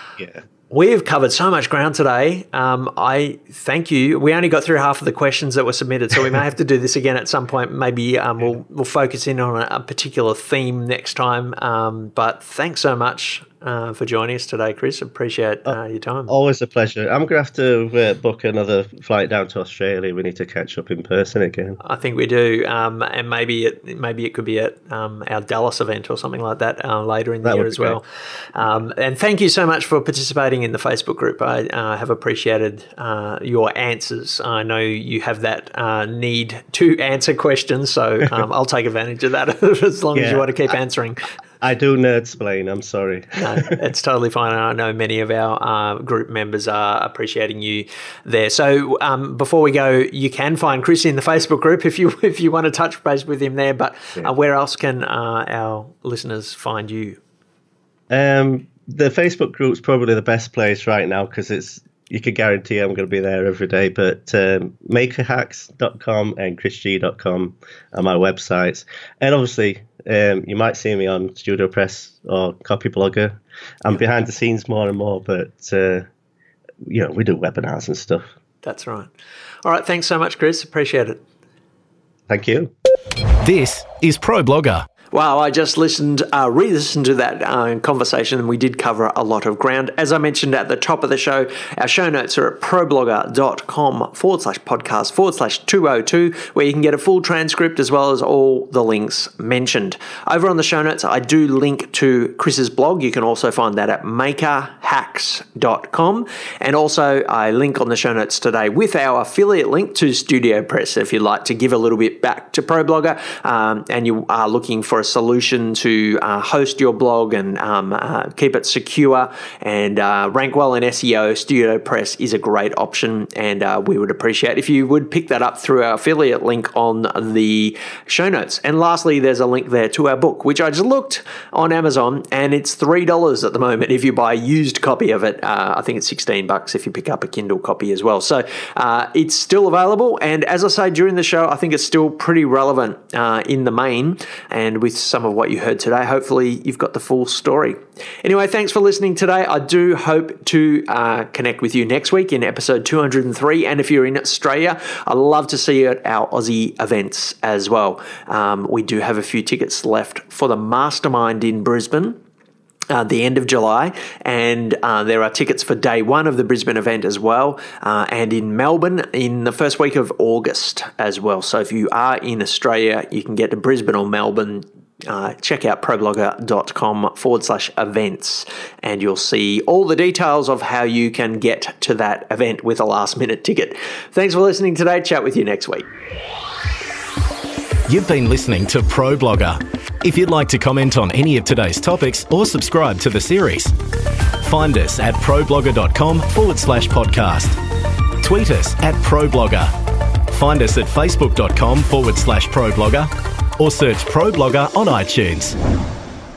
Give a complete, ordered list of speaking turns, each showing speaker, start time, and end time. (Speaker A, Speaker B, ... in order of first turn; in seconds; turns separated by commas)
Speaker A: 0.7-16.3, Speaker B: 16.3-21.8, Speaker A: 21.8-41.3, Speaker B: 27.4-28.0, Speaker B: 40.1-40.5, Speaker B: 41.6-43.8, Speaker A: 43.4-57.2, Speaker B: 58.1-76.1, Speaker B: 76.8-78.3, Speaker A: 78.6-79.1, Speaker A: 79.6-81.2, Speaker B: 82.3-82.7, Speaker C: 83.4-84.9, Speaker A: 85.1-162.2, Speaker A: 162.9-185.9, Speaker C: 187.9-193.7, Speaker C: 194.4-197.6, Speaker C: 198.2-199.7, Speaker C: 200.3-205.6